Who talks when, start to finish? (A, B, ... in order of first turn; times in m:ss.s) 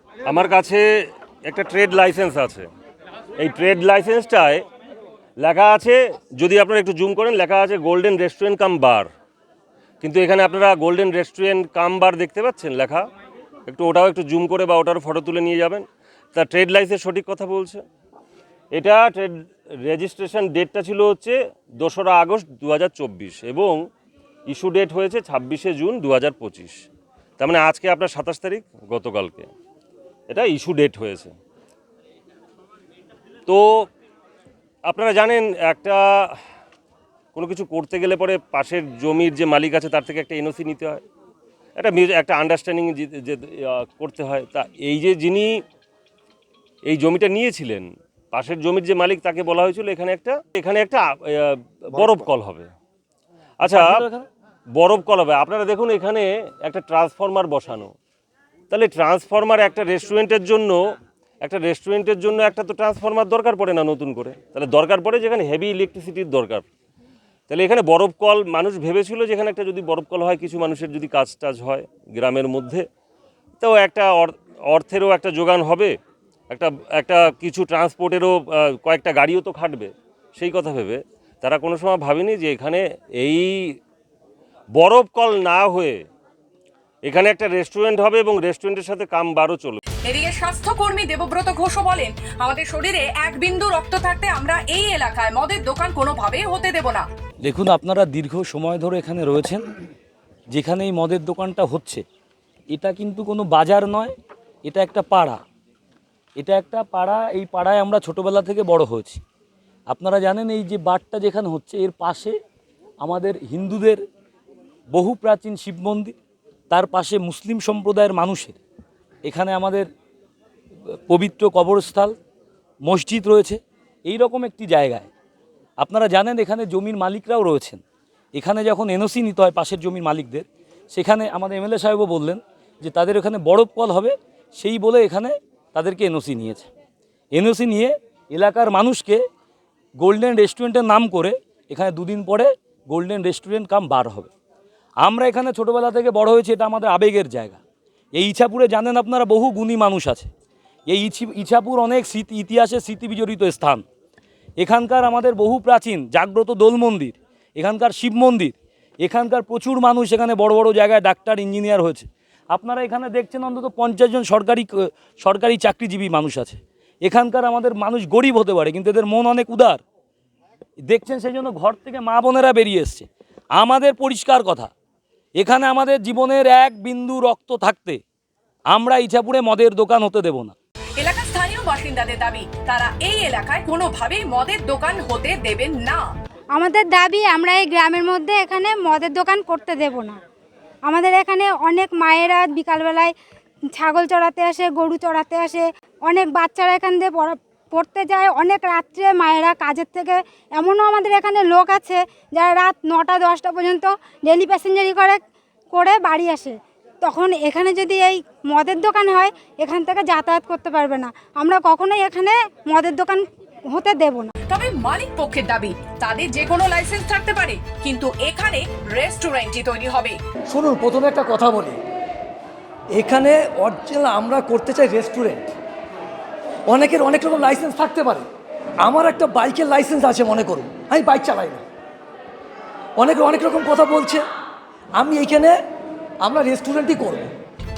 0:00.3-0:00.8 A
0:01.5-0:02.7 A
0:03.4-0:04.6 A
0:05.4-0:09.1 A
0:10.0-0:13.0 A
0:13.7-0:17.8 A
0:18.7-0:19.3 A
0:19.8-0:23.8 A
0:24.5-0:26.7 A
0:27.4-0:29.5 A
0:30.3-0:31.3 A
0:33.5-0:33.9 A
0:34.9-0:36.0 A
0:37.4-0:41.0 A
0:41.8-0:45.5 A
0:46.9-0:52.7 A
0:53.6-0:54.0 A
0:53.6-0:54.3 B
0:54.8-0:57.9 A
0:58.7-1:00.8 A
1:01.4-1:06.6 A
1:07.5-1:12.8 A
1:13.6-1:16.0 A
1:16.5-1:23.8 A
1:24.8-1:26.0 A
1:27.0-1:29.8 A
1:30.0-1:37.0 C
1:37.4-1:39.6 B
1:40.5-1:42.0 B
1:42.7-1:44.1 B
1:44.6-1:45.4 B
1:46.4-1:49.2 B
1:49.9-1:52.4 B
1:53.0-1:54.0 B
1:54.9-1:56.2 B
1:56.7-1:58.6 B
1:59.2-1:59.9 B
2:00.9-2:02.2 B
2:02.8-2:05.1 B
2:05.8-2:07.8 B
2:08.3-2:16.7 B
2:17.3-2:19.2 B
2:20.0-2:24.3 B
2:25.0-2:27.6 B
2:28.2-2:30.3 B
2:30.9-2:33.8 B
2:34.6-2:49.8 B
2:50.8-2:54.7 B
2:55.4-2:58.0 B
2:58.7-3:00.6 B
3:01.0-3:06.0 C
3:06.6-3:10.2 D
3:10.9-3:13.1 D
3:13.8-3:25.2 D
3:25.7-3:34.3 D
3:34.5-3:40.2 C
3:40.5-3:41.8 E
3:42.9-3:45.5 E
3:46.7-3:48.2 E
3:48.8-3:51.6 E
3:53.0-3:54.2 E
3:55.0-3:55.6 E
3:56.2-3:57.3 E